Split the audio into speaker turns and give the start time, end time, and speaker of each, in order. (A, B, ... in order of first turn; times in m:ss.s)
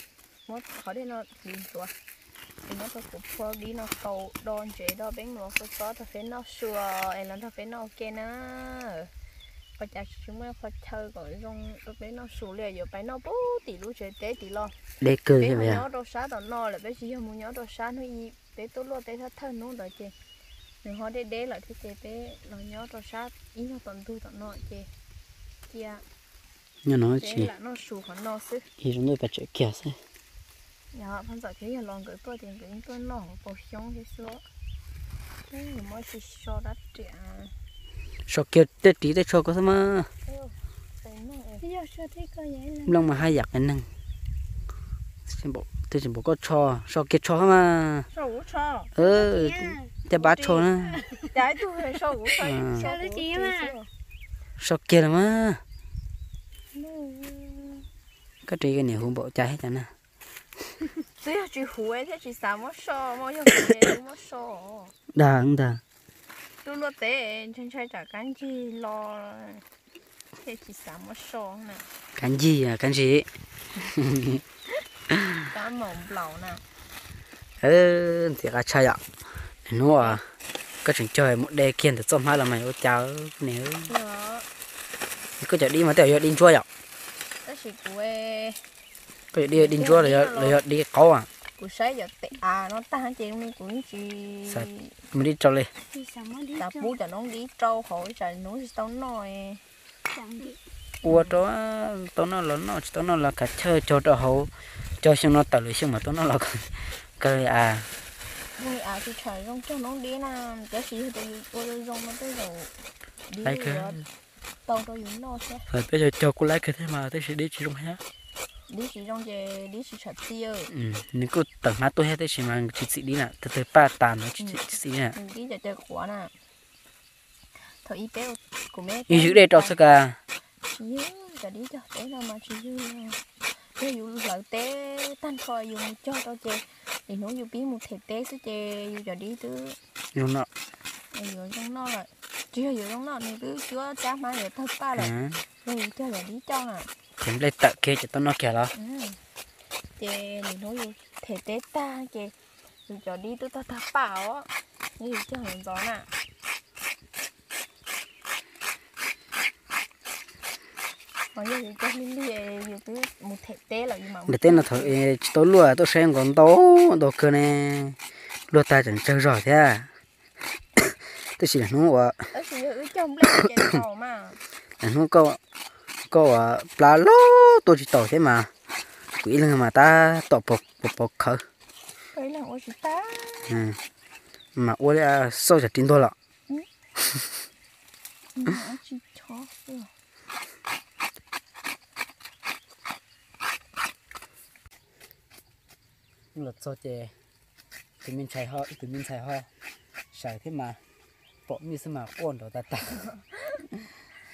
0:00.5-0:01.9 A
0:02.6-0:09.1 A
0:09.8-0:14.7 A
0:15.0-0:15.8 B
0:15.4-0:20.1 A
0:20.8-0:24.9 A
0:25.7-0:26.0 A
0:26.8-0:27.5 B
0:27.2-0:28.7 A
0:28.8-0:30.0 B
0:30.9-0:34.4 A
0:35.5-0:37.5 A
0:38.3-0:40.1 B
0:40.3-0:41.6 A
0:41.6-0:43.1 C
0:42.8-0:43.9 B
0:45.2-0:48.1 B
0:48.1-0:48.9 A
0:48.9-0:51.0 B
0:49.0-0:49.9 C
0:50.1-0:50.7 A
0:50.9-0:51.3 C
0:51.2-0:53.9 A
0:52.4-0:52.8 B
0:52.6-0:53.8 C
0:54.6-0:55.6 B
0:56.7-0:57.8 A
0:58.4-0:59.9 B
1:01.2-1:04.9 A
1:05.1-1:05.8 B
1:06.6-1:09.6 A
1:10.4-1:11.8 A
1:12.2-1:13.3 B
1:13.9-1:14.4 B
1:15.4-1:16.6 A
1:17.6-1:19.0 B
1:19.6-1:20.2 B
1:20.8-1:23.9 B
1:23.9-1:24.5 A
1:25.4-1:26.6 B
1:27.4-1:28.6 A
1:29.3-1:31.3 B
1:29.5-1:30.6 A
1:31.6-1:34.9 A
1:34.5-1:35.7 B
1:35.9-1:37.0 C
1:36.6-1:39.6 A
1:40.1-1:40.6 C
1:41.0-1:47.9 B
1:48.6-1:52.7 A
1:53.3-1:54.0 A
1:53.4-1:54.0 B
1:54.6-1:55.7 A
1:55.7-1:58.0 B
1:58.7-2:00.7 A
2:00.7-2:05.1 B
2:04.4-2:06.3 A
2:07.6-2:09.7 A
2:09.1-2:10.2 B
2:10.7-2:19.8 A
2:20.1-2:20.5 B
2:21.1-2:25.1 A
2:25.0-2:25.4 B
2:25.6-2:26.9 A
2:27.2-2:28.7 B
2:28.7-2:29.2 A
2:30.0-2:32.3 A
2:32.9-2:36.1 A
2:41.3-2:44.9 A
2:44.3-2:48.0 B
2:48.5-2:49.9 B
2:50.8-2:52.3 B
2:52.3-2:54.4 A
2:54.8-2:55.4 B
2:56.1-2:58.5 B
2:59.2-3:01.4 B
3:02.1-3:03.6 A
3:03.5-3:03.8 B
3:04.5-3:06.1 B
3:08.4-3:09.9 A
3:16.3-3:17.1 B
3:18.0-3:19.5 B
3:20.1-3:20.8 B
3:21.5-3:23.0 B